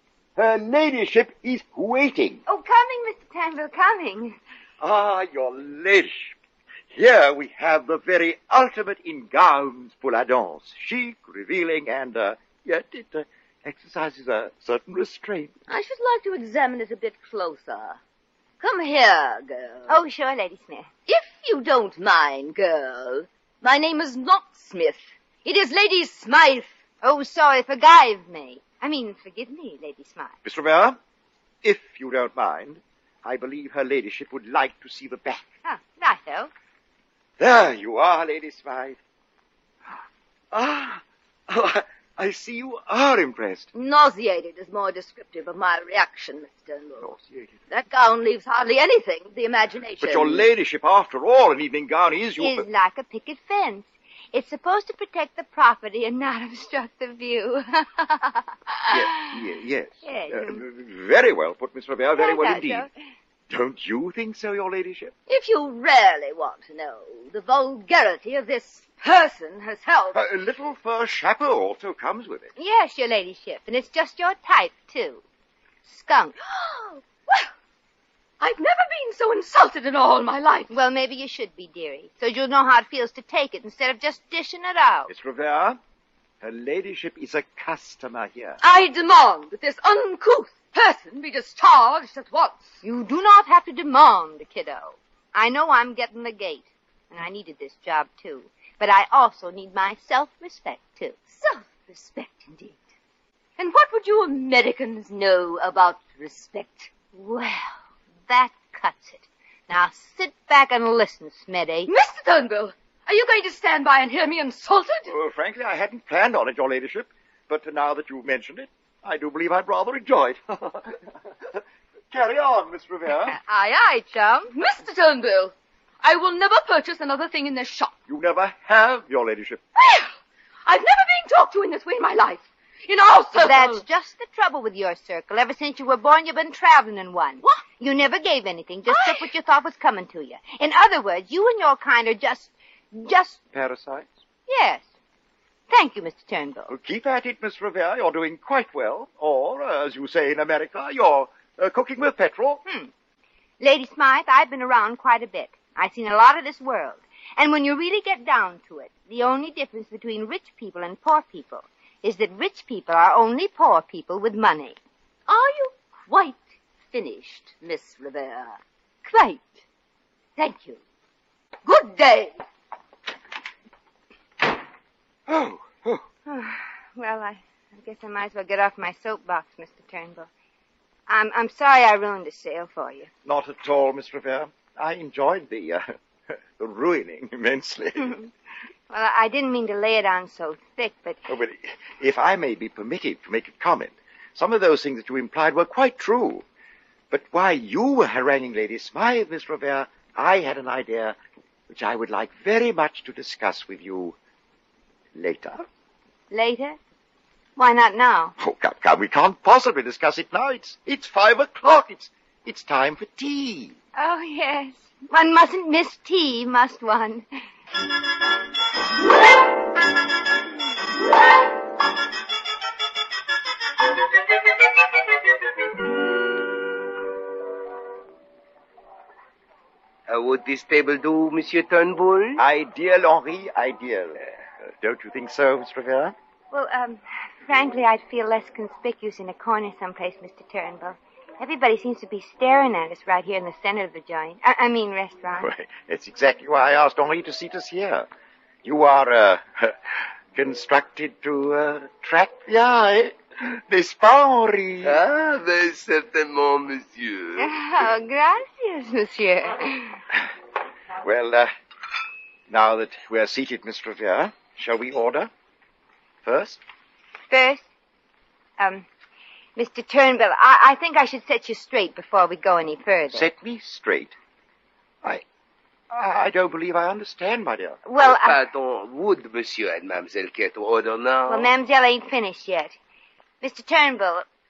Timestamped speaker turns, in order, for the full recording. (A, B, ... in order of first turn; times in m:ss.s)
0:00.4-0:02.4 A
0:02.5-0:04.4 B
0:04.8-0:06.4 A
0:06.9-0:15.6 A
0:15.7-0:18.0 C
0:18.6-0:20.0 C
0:19.9-0:20.9 B
0:21.1-0:26.8 C
0:27.0-0:30.4 B
0:30.4-0:31.0 A
0:31.6-0:35.5 A
0:35.6-0:36.5 B
0:37.4-0:39.0 A
0:40.5-0:43.7 A
0:43.7-0:47.1 C
0:47.0-0:47.6 A
0:47.7-0:50.5 C
0:50.0-0:52.7 A
0:52.4-0:59.3 B
0:58.9-1:02.9 A
1:00.0-1:00.6 B
1:02.2-1:02.9 B
1:03.5-1:05.1 A
1:05.3-1:10.2 C
1:10.1-1:12.5 A
1:12.6-1:15.2 B
1:15.8-1:16.4 B
1:16.4-1:17.5 C
1:18.4-1:20.7 C
1:20.7-1:25.1 B
1:25.1-1:25.8 A
1:26.4-1:28.6 A
1:28.6-1:32.8 C
1:32.8-1:41.2 B
1:41.3-1:42.6 C
1:42.3-1:42.8 B
1:43.6-1:47.1 C
1:47.2-1:47.6 B
1:48.3-1:51.9 B
1:51.9-1:55.1 C
1:55.1-2:03.4 A
2:03.3-2:08.0 C
2:08.1-2:09.6 A
2:09.8-2:10.1 C
2:10.7-2:13.8 C
2:13.4-2:23.4 B
2:18.9-2:19.3 C
2:23.5-2:24.2 A
2:24.5-2:24.9 B
2:25.7-2:26.7 B
2:26.7-2:32.6 A
2:32.7-2:32.9 B
2:33.6-2:44.8 B
2:45.3-2:48.6 C
2:49.0-2:49.6 B
2:50.4-2:50.8 C
2:51.6-2:52.4 C
2:55.3-2:56.0 A
2:56.3-3:00.3 B
3:01.1-3:03.1 B
3:03.2-3:05.9 A
3:06.6-3:08.2 A
3:08.0-3:08.3 B
3:08.9-3:11.2 B
3:11.3-3:16.4 A
3:17.1-3:21.2 A
3:21.7-3:24.2 A
3:25.2-3:25.6 A
3:26.3-3:26.8 B
3:27.6-3:28.4 B
3:28.4-3:33.8 A
3:34.0-3:37.2 B
3:50.1-3:52.4 D
3:52.4-3:56.2 A
3:56.5-4:05.5 B
4:05.4-4:08.1 A
4:08.6-4:15.0 A
4:14.8-4:17.5 D
4:17.4-4:20.0 B
4:21.0-4:21.5 A
4:22.5-4:25.3 A
4:26.2-4:26.6 A
4:27.3-4:27.7 B
4:28.6-4:28.9 B
4:29.6-4:33.3 B
4:33.1-4:34.1 A
4:35.9-4:37.8 A
4:37.8-4:38.4 B
4:38.0-4:41.5 D
4:41.3-4:42.8 B
4:43.4-4:44.2 B